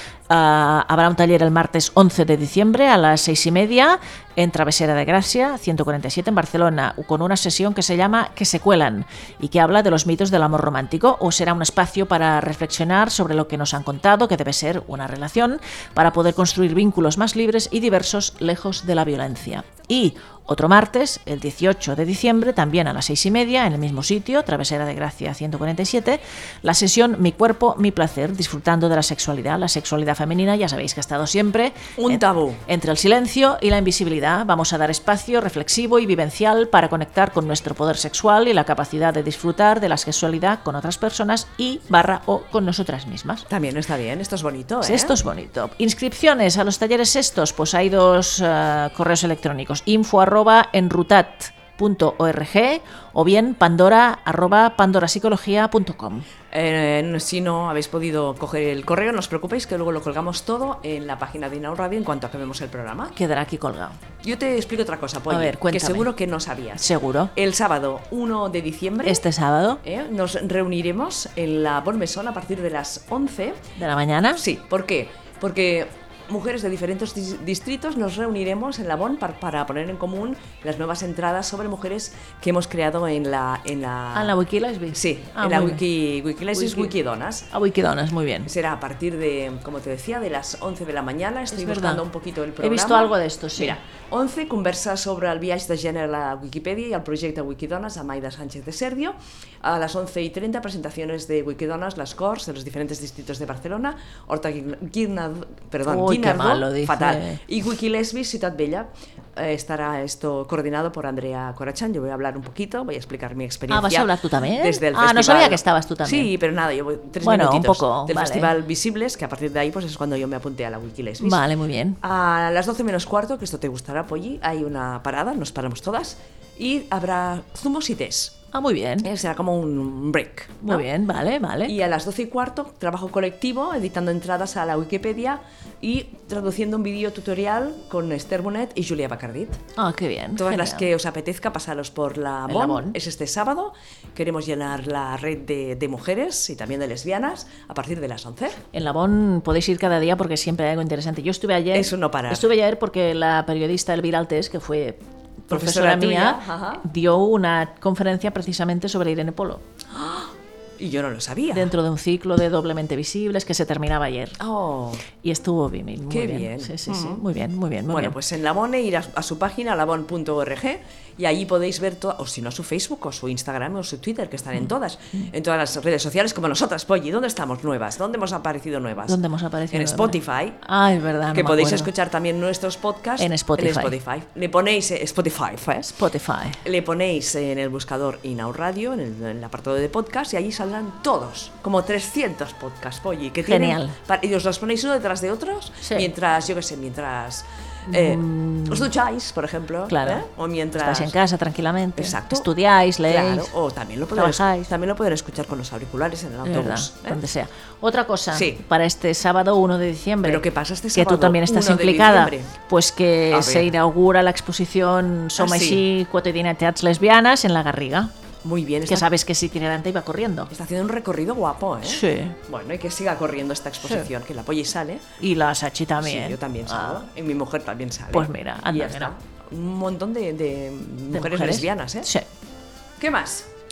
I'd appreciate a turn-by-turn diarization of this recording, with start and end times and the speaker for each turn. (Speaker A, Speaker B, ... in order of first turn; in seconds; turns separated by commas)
Speaker A: 0.3-43.5, Speaker B: 32.0-32.6, Speaker B: 43.5-45.2, Speaker A: 44.8-56.2, Speaker B: 56.5-63.1, Speaker A: 63.1-64.0, Speaker B: 64.2-69.2, Speaker A: 65.3-66.1, Speaker A: 66.8-67.3, Speaker A: 69.0-69.8, Speaker B: 69.8-73.6, Speaker A: 73.8-74.4, Speaker B: 74.3-84.3, Speaker A: 84.1-85.8, Speaker B: 84.9-87.5, Speaker A: 86.5-86.9, Speaker A: 87.5-88.5, Speaker B: 88.4-121.4, Speaker A: 91.5-92.0, Speaker A: 92.6-93.8, Speaker A: 105.8-107.4, Speaker A: 113.7-116.3, Speaker A: 117.2-118.5, Speaker A: 121.2-122.0, Speaker B: 122.0-128.4, Speaker A: 128.5-129.1, Speaker B: 129.0-130.9, Speaker A: 130.6-131.8, Speaker B: 131.6-139.6, Speaker A: 139.8-140.9, Speaker B: 140.3-148.6, Speaker A: 142.5-143.0, Speaker A: 148.7-159.6, Speaker B: 151.7-152.5, Speaker B: 155.5-156.8, Speaker B: 159.9-161.7, Speaker A: 161.5-164.4, Speaker B: 164.4-165.0, Speaker A: 165.2-168.2, Speaker B: 166.1-167.2, Speaker B: 167.9-179.2, Speaker A: 179.1-181.9, Speaker B: 179.7-180.6, Speaker B: 181.3-185.9, Speaker A: 183.2-183.9, Speaker A: 185.8-186.6, Speaker B: 186.6-201.2, Speaker A: 193.4-193.9, Speaker A: 195.8-196.1, Speaker A: 197.9-198.9, Speaker A: 199.9-203.5, Speaker B: 201.9-202.5, Speaker B: 203.1-207.2, Speaker A: 204.1-204.7, Speaker A: 206.4-218.1, Speaker B: 208.3-208.6, Speaker B: 210.2-212.5, Speaker B: 213.3-213.7, Speaker B: 215.4-215.8, Speaker B: 218.4-219.1, Speaker A: 218.9-220.5, Speaker B: 220.5-225.1, Speaker A: 221.8-222.3, Speaker A: 223.8-224.1, Speaker A: 225.2-227.1, Speaker B: 226.0-232.1, Speaker A: 228.1-229.1, Speaker A: 231.1-232.2, Speaker B: 233.0-233.5